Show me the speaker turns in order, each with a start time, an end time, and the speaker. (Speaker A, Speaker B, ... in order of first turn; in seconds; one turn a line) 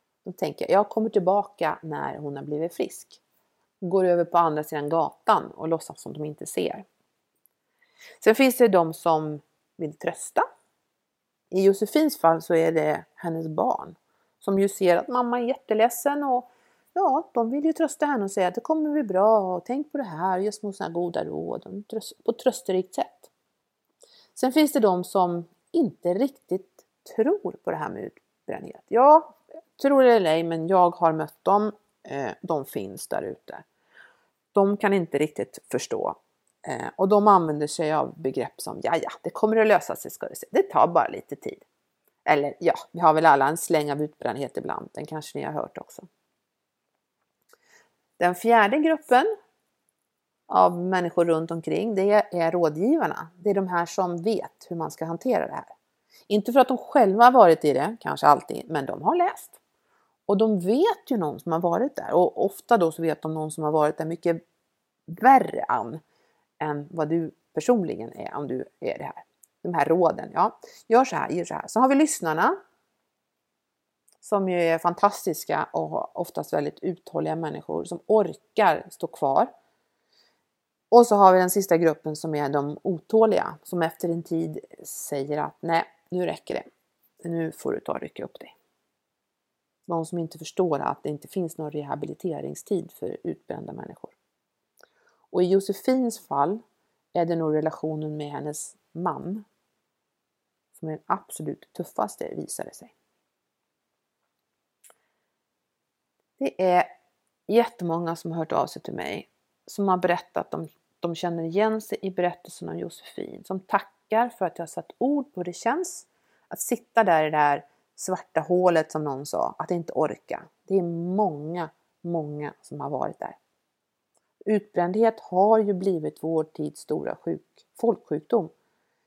Speaker A: 0.2-3.2
Speaker A: 3.8-6.8
Speaker A: 8.2-10.4
Speaker A: 11.5-23.3
Speaker A: 24.3-33.6
Speaker A: 34.5-41.6
Speaker A: 42.2-46.1
Speaker A: 48.2-49.3
Speaker A: 50.5-55.7
Speaker A: 56.3-59.6
Speaker A: 60.3-64.4
Speaker A: 65.1-66.0
Speaker A: 66.6-72.6
Speaker A: 74.2-79.5
Speaker A: 80.9-86.7
Speaker A: 87.2-88.5
Speaker A: 89.9-94.1
Speaker A: 95.3-96.6
Speaker A: 97.1-99.5
Speaker A: 100.8-102.9
Speaker A: 106.4-106.9
Speaker A: 107.5-123.4
Speaker A: 124.5-128.5